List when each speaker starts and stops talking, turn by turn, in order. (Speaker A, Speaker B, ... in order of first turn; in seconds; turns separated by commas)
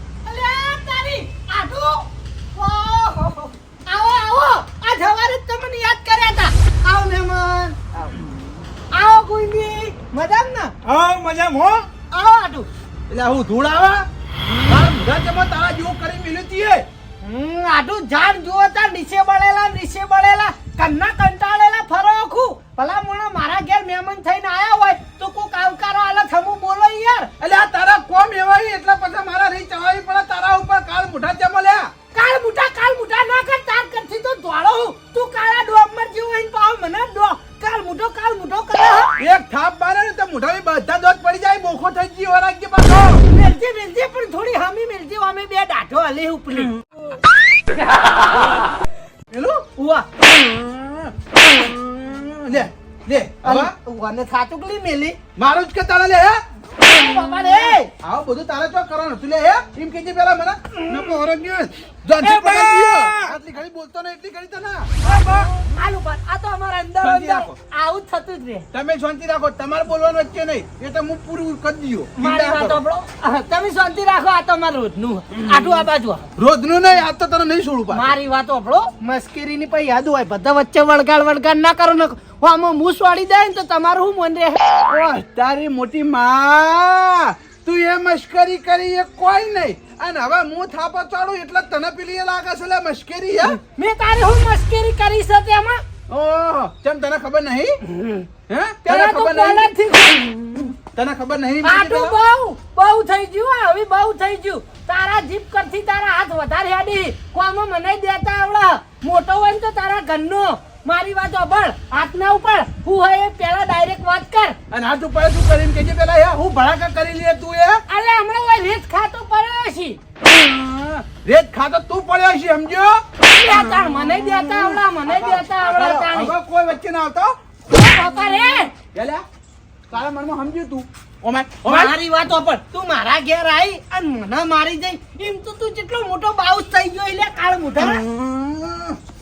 Speaker A: 0.2-7.8, Speaker A: 8.9-10.7, Speaker B: 10.8-11.9, Speaker A: 12.1-12.7, Speaker C: 13.1-14.1, Speaker A: 14.4-14.8, Speaker C: 14.7-16.9, Speaker A: 17.2-27.3, Speaker C: 27.4-31.9, Speaker A: 32.1-39.1, Speaker C: 39.2-43.3, Speaker A: 43.3-46.7, Speaker C: 49.3-49.7, Speaker A: 49.8-50.1, Speaker C: 50.3-53.7, Speaker A: 53.4-55.2, Speaker C: 55.4-56.4, Speaker A: 56.8-57.9, Speaker C: 58.0-65.0, Speaker B: 62.2-63.3, Speaker A: 65.0-68.7, Speaker B: 65.1-65.5, Speaker C: 67.0-67.5, Speaker C: 68.7-72.8, Speaker A: 72.2-76.3, Speaker C: 75.5-75.8, Speaker C: 76.4-78.2, Speaker A: 77.9-84.8, Speaker C: 84.9-93.6, Speaker A: 93.4-95.8, Speaker C: 96.1-97.8, Speaker A: 97.8-98.3, Speaker C: 98.5-99.7, Speaker A: 98.8-100.7, Speaker C: 100.6-102.2, Speaker A: 101.6-114.6, Speaker C: 114.7-117.8, Speaker A: 117.9-120.0, Speaker C: 120.2-123.0, Speaker A: 123.3-126.3, Speaker C: 124.2-127.3, Speaker A: 127.7-128.7, Speaker C: 128.9-129.2, Speaker C: 129.9-131.9, Speaker A: 131.7-138.0, Speaker C: 137.8-139.0